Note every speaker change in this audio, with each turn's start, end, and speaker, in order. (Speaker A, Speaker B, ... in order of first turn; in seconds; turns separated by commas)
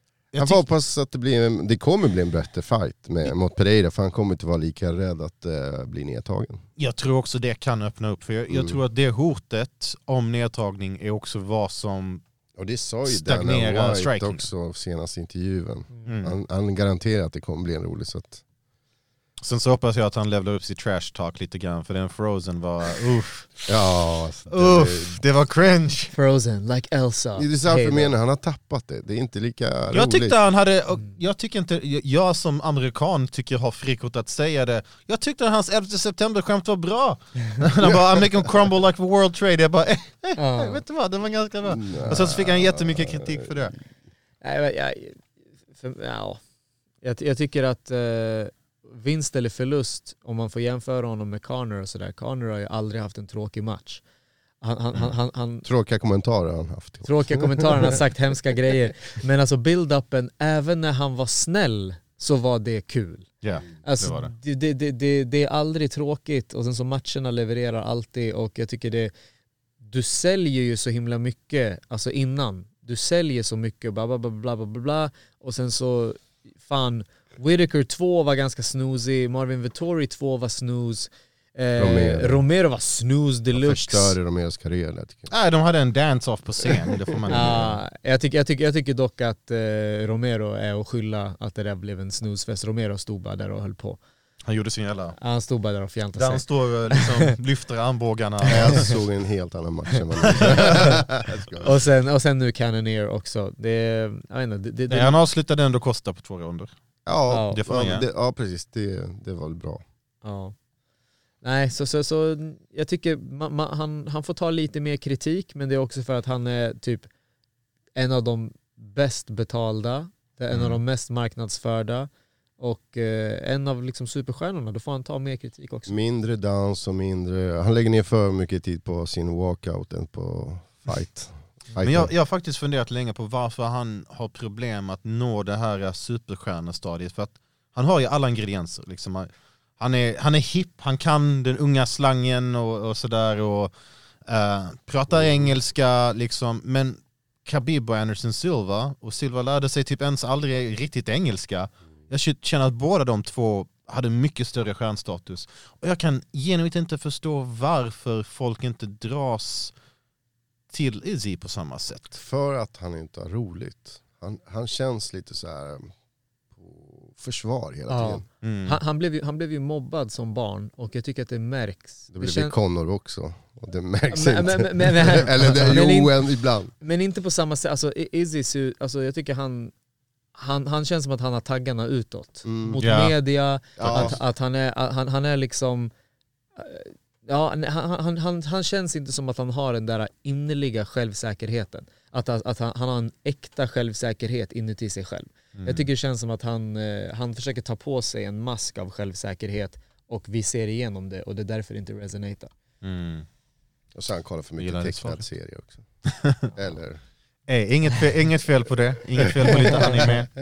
Speaker A: 0.3-0.7, Speaker B: 0.4-6.6, Speaker A: 6.8-12.2, Speaker B: 8.5-8.8, Speaker B: 12.6-18.4, Speaker A: 13.1-14.5, Speaker A: 16.1-16.4, Speaker A: 19.4-23.7, Speaker B: 23.7-25.2, Speaker A: 24.5-26.1, Speaker C: 26.1-28.1, Speaker B: 27.4-30.4, Speaker A: 29.9-43.8, Speaker B: 37.8-38.2, Speaker C: 40.4-40.8, Speaker B: 41.7-43.6, Speaker C: 44.4-45.2, Speaker C: 45.8-46.4, Speaker C: 47.0-54.0, Speaker C: 54.6-55.6, Speaker B: 55.6-58.0, Speaker C: 57.0-63.3, Speaker A: 63.4-64.3, Speaker C: 63.8-69.1, Speaker C: 69.8-84.2, Speaker B: 81.8-82.4, Speaker B: 83.5-85.3, Speaker A: 85.3-87.8, Speaker C: 87.3-94.0, Speaker A: 94.5-95.2, Speaker C: 95.2-97.3, Speaker A: 96.2-99.0, Speaker B: 98.5-101.8, Speaker A: 100.3-101.0, Speaker C: 101.6-105.2, Speaker A: 104.9-106.7, Speaker B: 107.1-109.8, Speaker C: 107.3-107.6, Speaker A: 107.5-108.1, Speaker C: 110.2-110.5, Speaker C: 111.4-117.1, Speaker C: 118.0-125.9, Speaker A: 120.5-120.8, Speaker B: 125.9-132.1, Speaker A: 131.8-143.7, Speaker A: 144.3-159.7, Speaker B: 145.2-145.5, Speaker A: 160.7-162.2, Speaker B: 162.1-165.9, Speaker B: 166.5-168.2, Speaker C: 167.9-172.5, Speaker A: 168.4-168.8, Speaker B: 172.1-176.7, Speaker C: 174.1-176.2, Speaker C: 176.8-179.7, Speaker C: 180.4-185.9, Speaker B: 182.4-182.8, Speaker A: 182.8-183.2, Speaker B: 183.8-184.2, Speaker A: 183.8-184.2, Speaker C: 186.6-202.5, Speaker A: 195.6-195.9, Speaker A: 202.8-203.3, Speaker B: 203.9-205.8, Speaker A: 204.6-205.2, Speaker A: 206.1-206.5, Speaker B: 206.5-207.0, Speaker A: 207.5-210.3, Speaker B: 209.3-210.1, Speaker C: 209.6-210.0